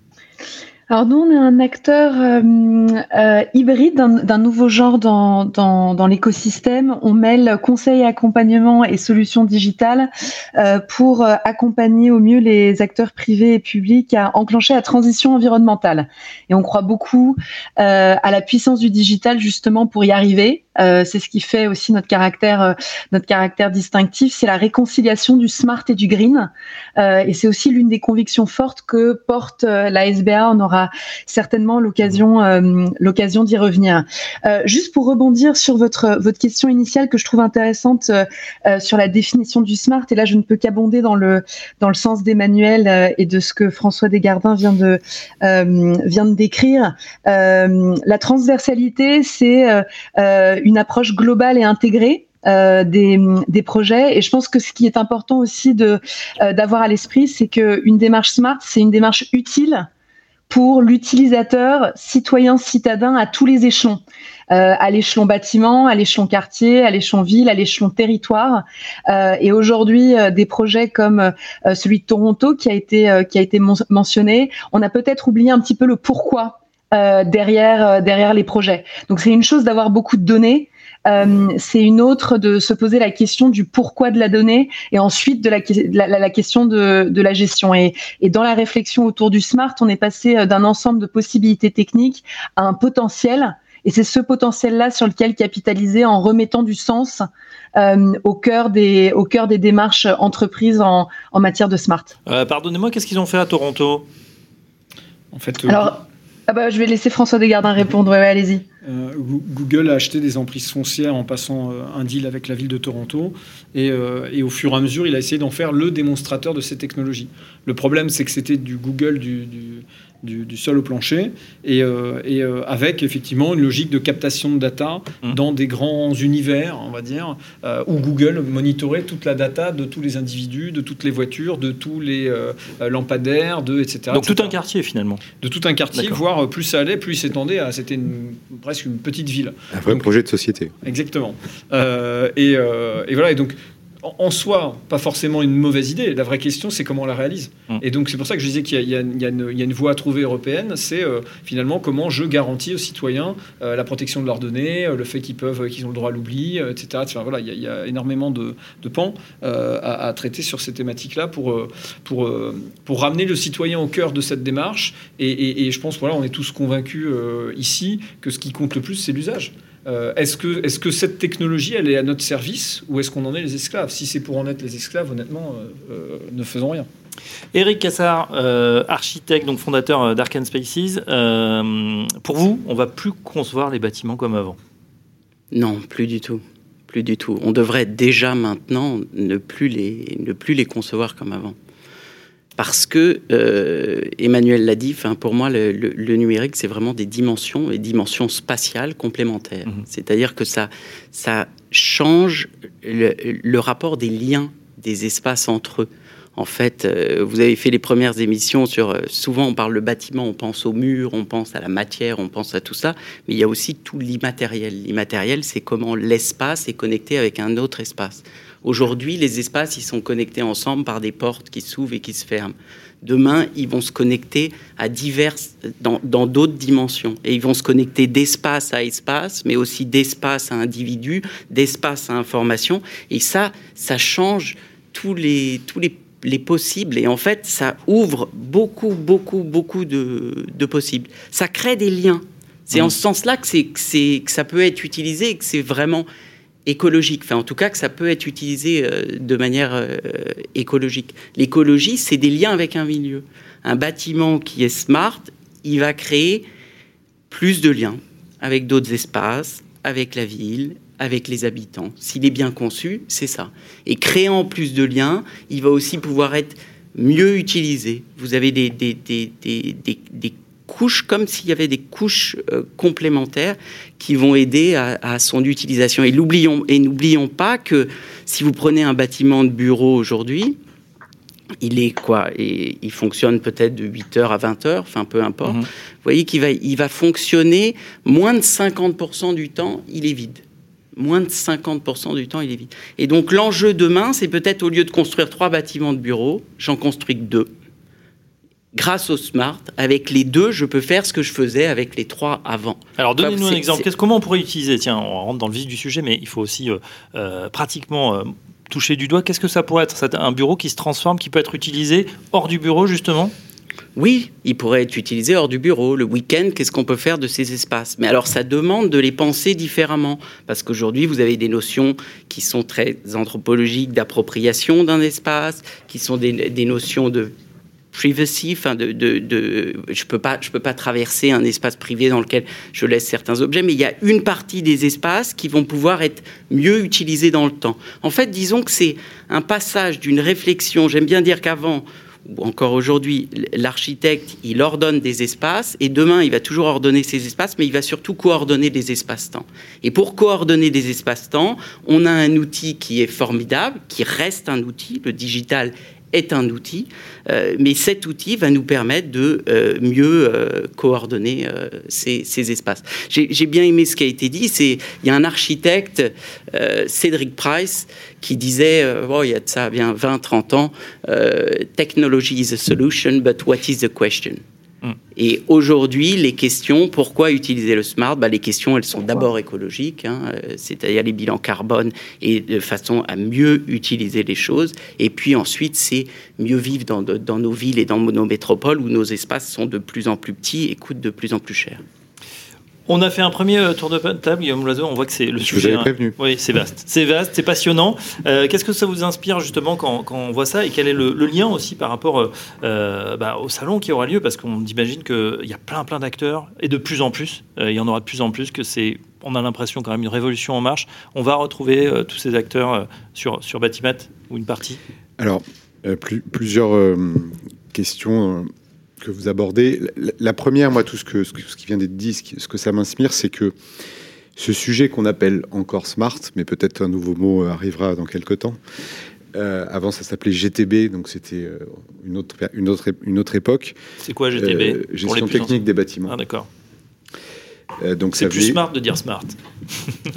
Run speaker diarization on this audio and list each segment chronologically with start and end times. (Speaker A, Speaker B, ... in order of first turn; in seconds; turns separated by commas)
Speaker A: 0.9-59.9, Speaker A: 60.5-102.1, Speaker B: 102.3-104.1, Speaker C: 105.3-105.9, Speaker A: 105.7-108.6, Speaker C: 108.8-134.6, Speaker B: 134.1-135.3, Speaker C: 135.4-140.1, Speaker B: 135.9-136.2, Speaker D: 139.7-140.7, Speaker C: 140.8-176.9, Speaker B: 177.5-184.6, Speaker E: 185.5-191.6, Speaker E: 192.6-246.1, Speaker E: 246.7-256.4, Speaker E: 257.3-280.6, Speaker E: 281.6-290.4, Speaker E: 291.0-297.5, Speaker E: 298.8-303.9, Speaker B: 303.0-313.3, Speaker E: 314.0-327.3, Speaker E: 327.9-374.4, Speaker E: 375.2-391.8, Speaker B: 392.9-414.8, Speaker D: 395.4-396.1, Speaker D: 415.2-423.6, Speaker D: 424.4-428.6, Speaker D: 429.3-433.8, Speaker B: 434.0-436.5, Speaker D: 434.4-436.1, Speaker D: 437.8-438.6, Speaker B: 438.1-439.9